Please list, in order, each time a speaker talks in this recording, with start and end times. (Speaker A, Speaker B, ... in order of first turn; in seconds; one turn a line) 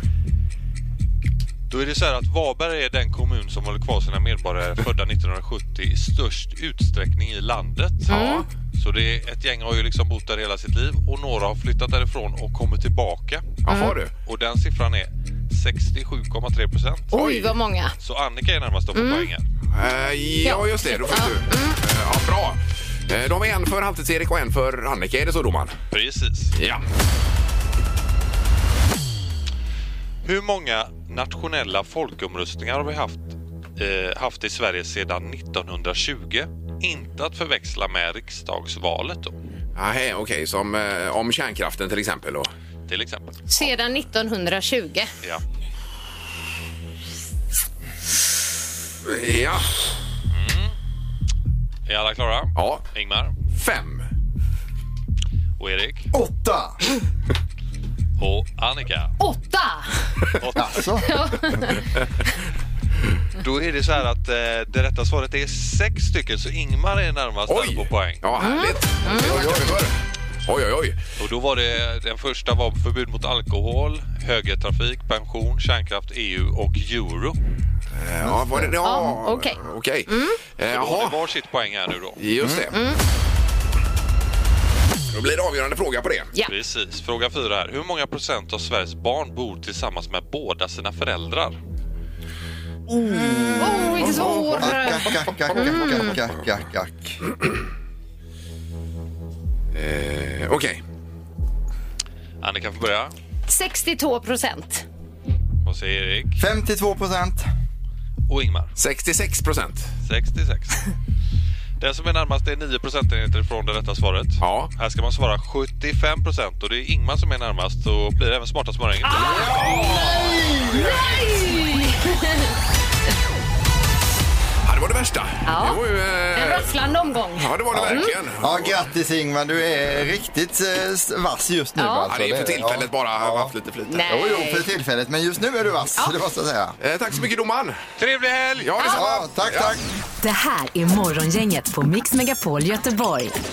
Speaker A: 1.7-13.6
Speaker B: 8.1-8.4
Speaker C: 8.1-8.5
Speaker C: 13.6-14.1
Speaker B: 13.7-14.0
Speaker A: 14.2-17.2
Speaker B: 17.1-17.9
Speaker C: 17.1-17.5
Speaker A: 18.0-19.4
Speaker B: 18.9-19.3
Speaker C: 19.7-25.8
Speaker B: 20.4-21.8
Speaker A: 25.9-26.6
Speaker C: 26.6-26.8
Speaker A: 30.2-39.4
Speaker C: 39.8-42.5
Speaker A: 42.9-43.4
Speaker B: 43.5-45.1
Speaker C: 49.1-49.7
Speaker A: 50.3-50.8
Speaker A: 51.9-53.4
Speaker C: 52.5-52.8
Speaker C: 53.5-54.1
Speaker A: 55.6-56.1
Speaker D: 56.1-56.8
Speaker A: 58.2-59.1
Speaker B: 59.2-60.2
Speaker A: 60.4-61.0
Speaker D: 60.5-61.7
Speaker B: 61.0-61.8
Speaker A: 63.4-68.3
Speaker C: 67.5-70.0
Speaker B: 68.4-69.4
Speaker D: 69.2-69.8
Speaker C: 70.5-71.0
Speaker A: 71.2-77.4
Speaker C: 78.0-81.2
Speaker D: 78.2-78.7
Speaker B: 78.8-80.4
Speaker A: 80.7-82.2
Speaker C: 82.2-82.8
Speaker B: 82.7-83.0
Speaker C: 85.1-86.3
Speaker A: 86.5-91.6
Speaker D: 92.9-97.2
Speaker C: 93.2-96.3
Speaker B: 93.6-96.2
Speaker C: 99.7-100.8
Speaker A: 102.4-103.1
Speaker B: 103.5-104.8
Speaker A: 105.6-106.4
Speaker D: 106.4-107.5
Speaker A: 108.3-108.7
Speaker C: 108.8-109.9
Speaker A: 110.0-110.9
Speaker A: 111.8-119.5
Speaker C: 114.4-114.7
Speaker C: 119.1-120.5
Speaker D: 119.2-121.1
Speaker B: 119.2-119.5
Speaker B: 120.7-122.5
Speaker C: 124.6-126.7
Speaker B: 125.5-125.8
Speaker B: 126.3-128.1
Speaker C: 127.4-128.8
Speaker D: 127.7-133.5
Speaker B: 131.8-132.1
Speaker C: 132.1-134.1
Speaker B: 133.9-134.7
Speaker D: 134.1-136.8
Speaker C: 136.8-137.8
Speaker A: 138.0-138.8
Speaker C: 138.6-139.8
Speaker B: 138.8-139.1
Speaker D: 138.8-139.8
Speaker E: 140.2-143.4